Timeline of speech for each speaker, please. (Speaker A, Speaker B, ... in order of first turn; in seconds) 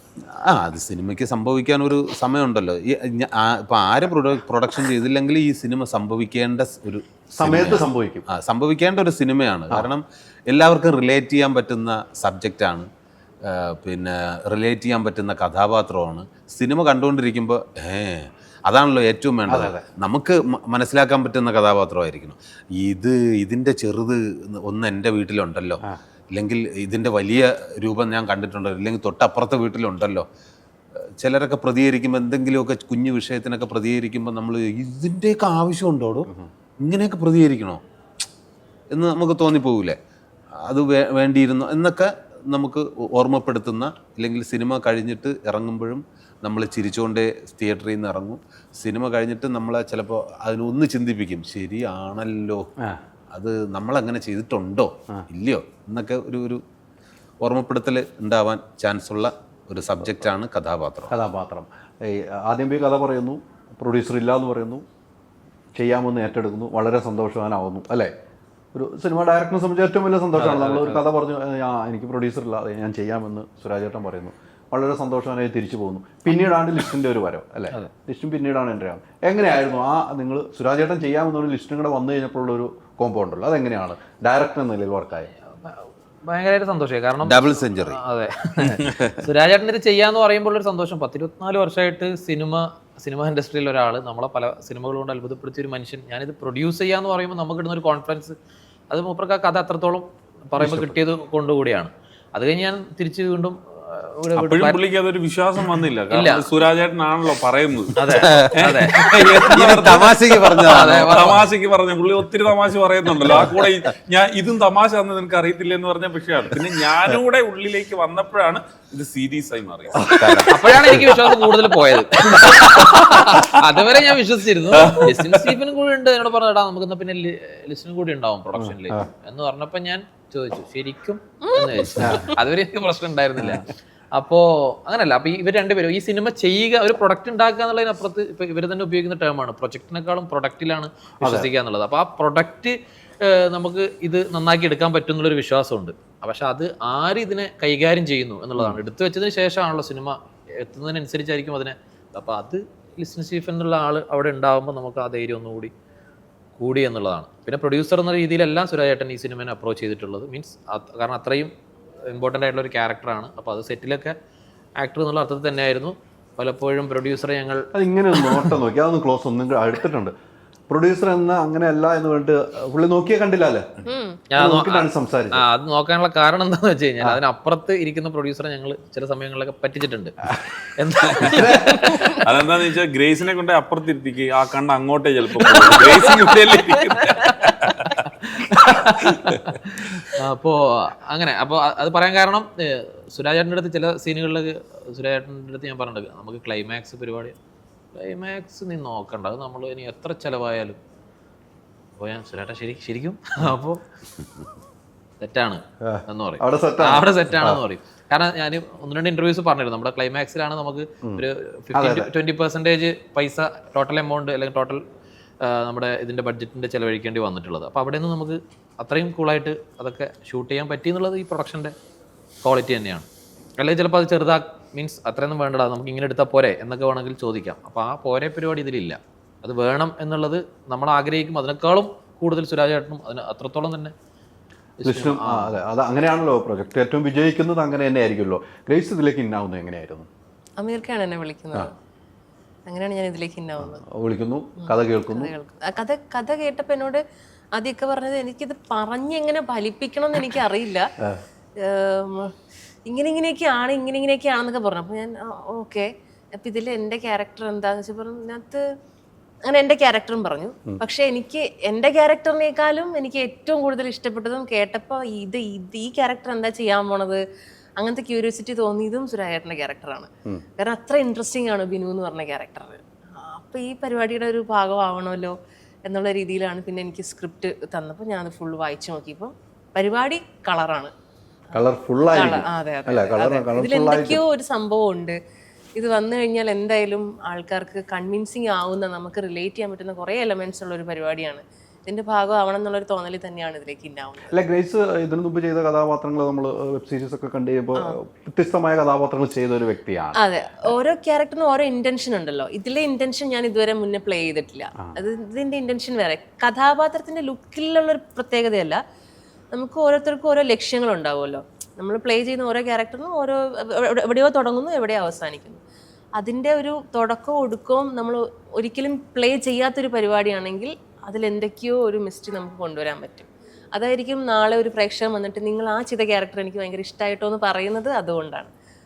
Speaker A: 0.5-12.9, 13.5-25.8, 26.3-30.2, 31.2-36.3, 36.8-37.8, 38.9-40.0, 40.6-52.7, 53.3-56.6, 57.4-61.1, 87.2-88.0, 108.1-108.5, 109.3-111.2, 120.1-120.6
Speaker B: 7.4-8.2, 19.5-19.8, 61.1-64.8, 65.8-68.1, 68.7-85.3, 100.6-100.9, 128.6-129.1, 131.9-132.3, 141.2-141.5, 167.7-170.1, 170.7-173.7, 174.4-175.4, 181.2-181.8, 205.8-207.6, 211.0-212.1, 234.8-240.1, 243.6-245.3, 281.5-284.2, 294.3-300.2
Speaker C: 70.4-71.0, 85.5-98.4, 98.9-104.8, 106.1-106.5, 108.0-109.0, 110.7-111.5, 120.5-155.7, 156.6-161.5, 162.1-164.1, 164.8-167.6, 168.2-168.6, 174.3-182.1, 185.7-186.1, 188.2-197.4, 198.0-200.8, 202.0-203.8, 205.2-214.8, 215.4-221.7, 222.4-223.1, 223.6-233.9, 234.8-235.6
Speaker D: 104.4-120.1, 124.8-125.5, 182.2-188.0
Speaker E: 131.5-132.3, 173.9-174.2, 240.6-241.7, 242.7-243.8, 244.6-247.0, 247.6-250.9, 251.6-252.3, 252.9-258.6, 259.5-267.2, 267.8-275.3, 275.9-280.9, 282.1-285.2, 285.8-294.4, 300.2-308.8, 309.5-315.6, 316.2-328.5